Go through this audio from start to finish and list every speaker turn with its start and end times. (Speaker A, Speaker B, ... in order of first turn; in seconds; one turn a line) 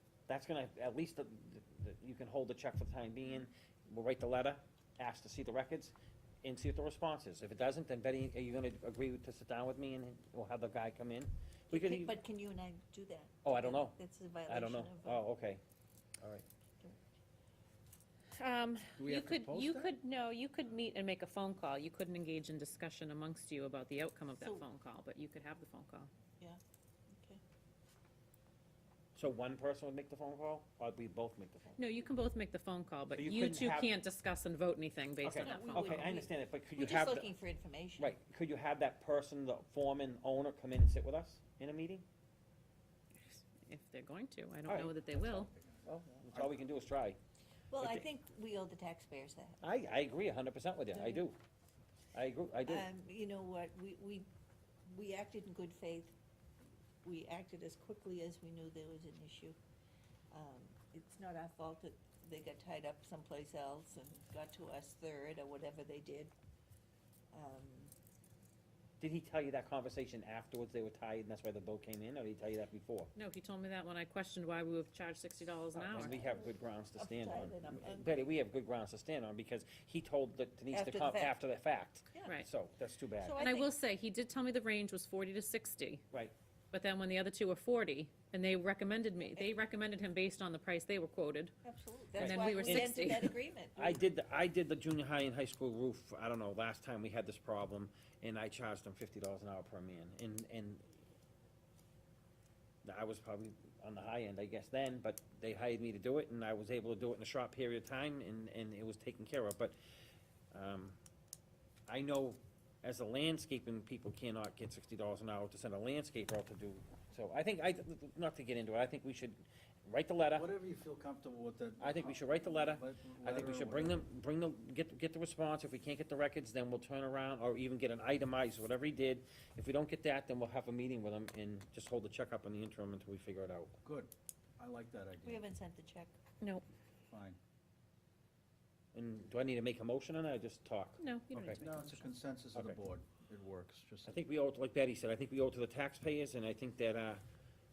Speaker A: 0.3-12.1
Speaker B: 11.7-15.3
Speaker A: 13.4-15.6
Speaker A: 16.2-16.4
Speaker C: 18.4-26.1
Speaker D: 19.0-19.9
Speaker B: 24.4-24.6
Speaker B: 27.1-27.4
Speaker A: 29.1-31.8
Speaker C: 31.8-36.1
Speaker A: 33.1-34.0
Speaker A: 35.2-37.3
Speaker B: 35.4-38.1
Speaker A: 38.0-42.0
Speaker C: 43.2-45.5
Speaker A: 44.7-44.9
Speaker D: 45.1-46.5
Speaker A: 45.8-47.2
Speaker B: 47.7-49.6
Speaker A: 47.8-48.0
Speaker A: 49.6-51.4
Speaker B: 50.9-51.3
Speaker A: 52.1-52.9
Speaker B: 52.6-54.3
Speaker B: 54.9-56.1
Speaker B: 57.0-59.6
Speaker B: 60.3-66.3
Speaker B: 67.3-67.9
Speaker A: 69.0-73.1
Speaker C: 73.2-76.2
Speaker A: 75.8-83.4
Speaker D: 75.8-76.1
Speaker B: 75.9-78.2
Speaker B: 80.7-81.4
Speaker B: 82.1-82.4
Speaker B: 83.2-83.7
Speaker C: 83.4-86.0
Speaker C: 86.7-91.5
Speaker B: 89.2-89.5
Speaker B: 91.6-94.0
Speaker A: 92.2-100.8
Speaker C: 92.2-93.3
Speaker A: 102.8-109.8
Speaker A: 110.5-111.0
Speaker A: 111.9-120.5
Speaker D: 120.3-124.0
Speaker A: 121.8-133.8
Speaker D: 133.8-135.4
Speaker B: 135.2-136.1
Speaker D: 137.1-137.4
Speaker A: 138.9-141.6
Speaker C: 141.0-142.0
Speaker D: 141.5-144.2
Speaker A: 142.5-142.8
Speaker A: 144.1-147.2